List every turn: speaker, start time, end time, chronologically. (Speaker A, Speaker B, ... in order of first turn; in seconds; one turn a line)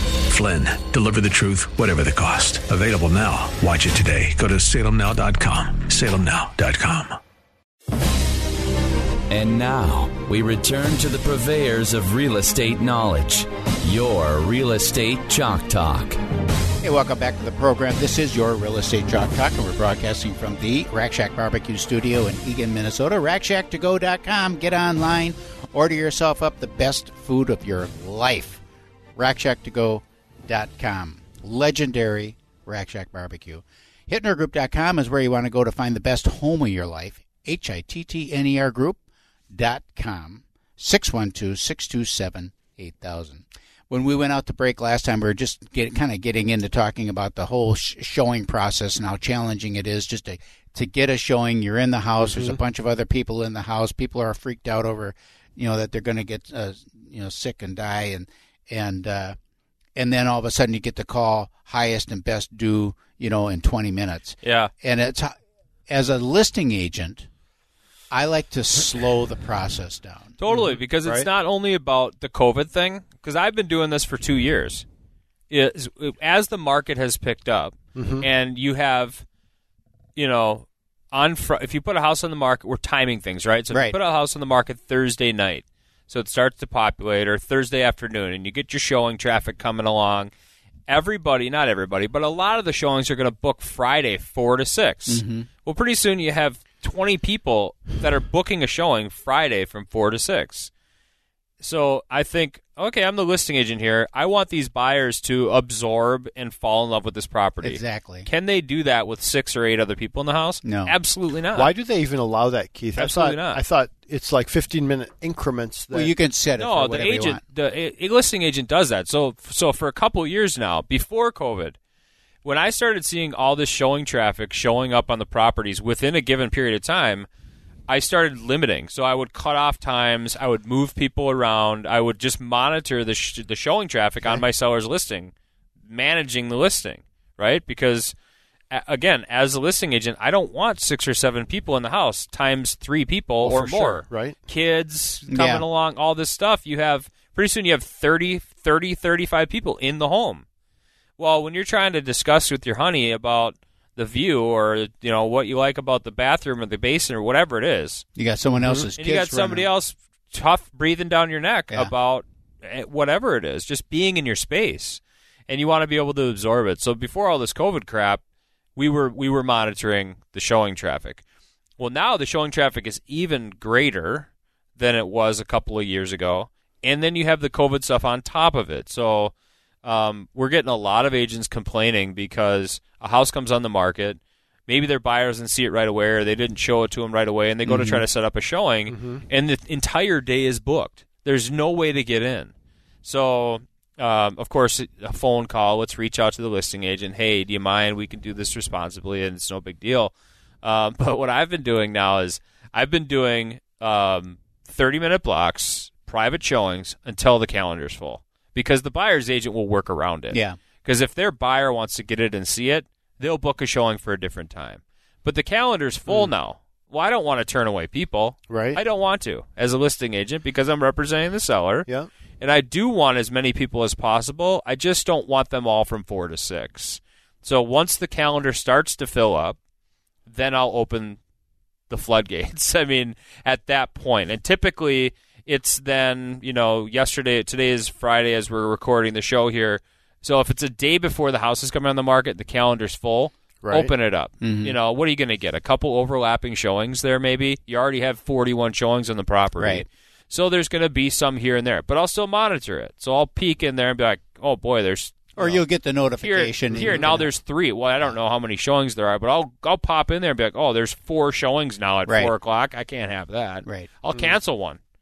Speaker A: 0.2-7.2
Speaker B: 9.3-16.2
Speaker C: 16.8-28.6
Speaker C: 29.1-39.0
Speaker C: 39.5-59.4
Speaker D: 52.2-52.6
Speaker C: 60.0-65.3
Speaker E: 64.4-64.7
Speaker C: 65.9-67.2
Speaker C: 68.1-70.3
Speaker E: 70.4-74.8
Speaker D: 70.5-71.3
Speaker E: 75.5-79.2
Speaker D: 78.0-78.3
Speaker E: 80.2-90.3
Speaker C: 83.7-84.0
Speaker E: 90.9-100.7
Speaker C: 95.1-95.5
Speaker E: 101.6-111.7
Speaker C: 107.6-108.3
Speaker C: 110.6-110.9
Speaker D: 111.5-116.1
Speaker E: 113.0-113.6
Speaker C: 115.9-117.4
Speaker E: 116.6-121.7
Speaker E: 122.4-127.3
Speaker E: 127.9-135.3
Speaker E: 135.9-138.1
Speaker E: 138.7-150.4
Speaker D: 143.4-144.4
Speaker C: 145.3-145.6
Speaker E: 151.2-158.1
Speaker C: 158.2-159.7
Speaker E: 158.9-168.2
Speaker E: 168.8-171.2
Speaker E: 171.8-179.3
Speaker E: 179.8-192.5
Speaker C: 187.6-188.0
Speaker D: 188.9-189.2
Speaker E: 193.0-221.9
Speaker C: 210.3-210.6
Speaker D: 218.5-218.8
Speaker E: 222.4-229.6
Speaker E: 230.3-231.2
Speaker E: 231.9-255.6
Speaker D: 243.6-243.9
Speaker C: 244.4-244.8
Speaker C: 249.6-249.8
Speaker C: 255.4-257.3
Speaker E: 256.2-264.8
Speaker D: 256.7-257.1
Speaker C: 262.1-262.3
Speaker C: 263.6-264.0